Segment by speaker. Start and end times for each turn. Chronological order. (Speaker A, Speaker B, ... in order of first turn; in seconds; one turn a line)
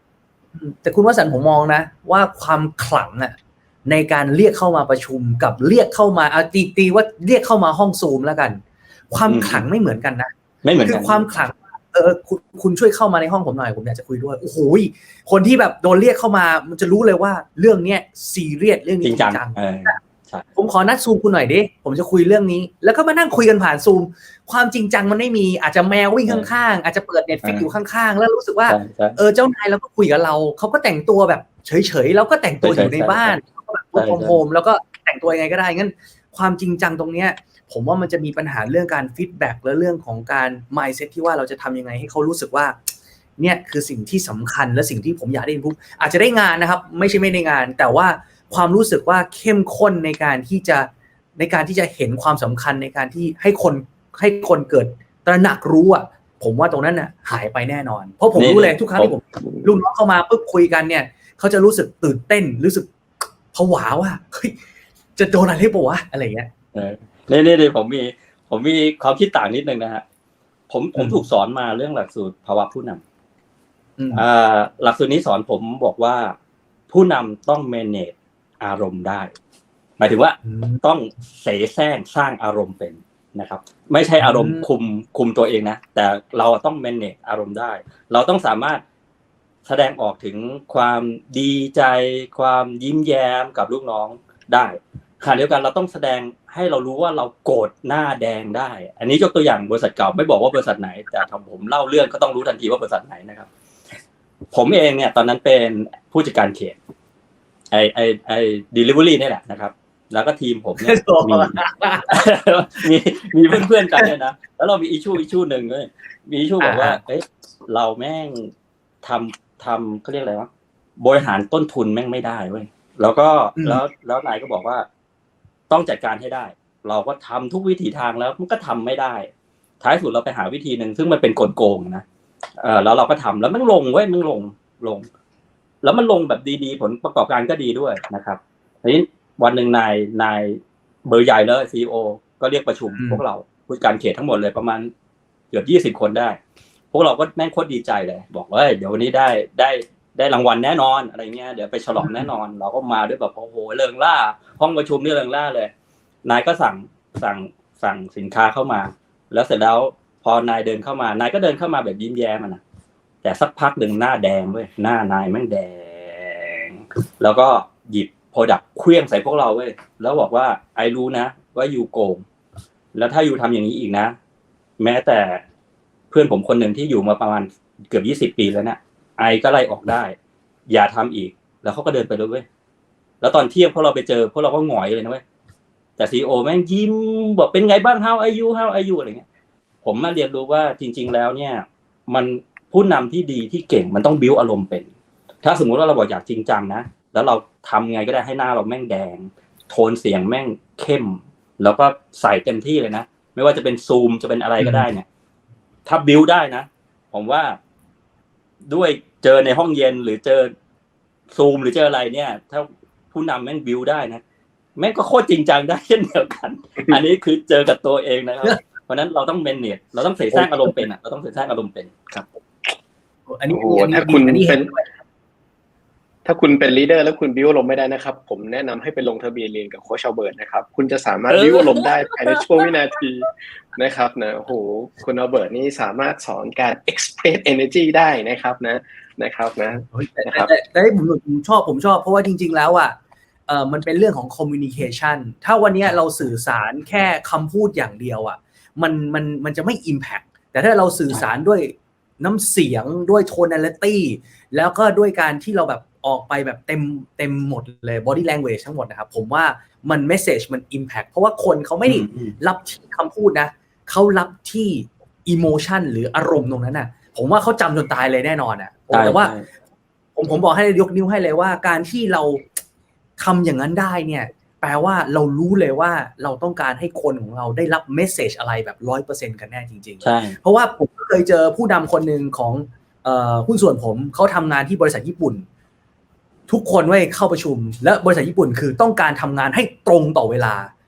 Speaker A: 0.6-3.4
Speaker A: 3.9-10.3
Speaker B: 9.2-9.6
Speaker B: 10.6-11.3
Speaker A: 10.8-20.0
Speaker B: 19.0-20.4
Speaker A: 20.6-42.9
Speaker B: 28.7-29.2
Speaker B: 32.6-33.4
Speaker B: 33.9-34.4
Speaker A: 43.4-62.9
Speaker B: 58.4-59.7
Speaker A: 63.5-64.6
Speaker A: 65.2-66.5
Speaker B: 66.7-70.0
Speaker B: 70.7-73.0
Speaker A: 71.0-71.2
Speaker A: 74.0-74.2
Speaker B: 74.1-76.3
Speaker B: 76.9-79.3
Speaker B: 80.0-88.8
Speaker A: 80.4-80.8
Speaker A: 84.2-84.7
Speaker B: 89.6-103.5
Speaker B: 104.5-106.8
Speaker B: 107.7-111.6
Speaker A: 110.8-112.2
Speaker B: 112.1-118.5
Speaker A: 113.5-114.1
Speaker A: 116.6-117.0
Speaker B: 119.0-120.5
Speaker B: 121.0-124.9
Speaker A: 123.6-123.8
Speaker B: 125.7-129.3
Speaker B: 129.8-132.0
Speaker B: 132.6-135.1
Speaker B: 135.8-144.9
Speaker A: 142.9-143.2
Speaker B: 145.5-146.4
Speaker B: 146.9-155.7
Speaker A: 152.0-152.3
Speaker B: 156.2-162.6
Speaker B: 163.2-172.2
Speaker B: 172.9-174.2
Speaker B: 174.8-175.4
Speaker B: 176.1-180.2
Speaker B: 180.7-182.4
Speaker B: 183.2-185.2
Speaker B: 186.0-189.2
Speaker B: 189.8-194.9
Speaker B: 195.4-205.1
Speaker A: 204.6-204.9
Speaker B: 205.9-207.6
Speaker B: 208.7-210.5
Speaker B: 211.3-214.2
Speaker B: 214.8-222.0
Speaker A: 220.3-220.9
Speaker A: 223.3-224.9
Speaker C: 223.5-224.7
Speaker C: 226.2-240.5
Speaker B: 231.3-232.7
Speaker A: 239.9-269.4
Speaker B: 261.9-262.4
Speaker B: 268.9-269.5
Speaker A: 270.1-272.5
Speaker A: 273.2-285.4
Speaker B: 280.0-280.4
Speaker A: 286.5-290.7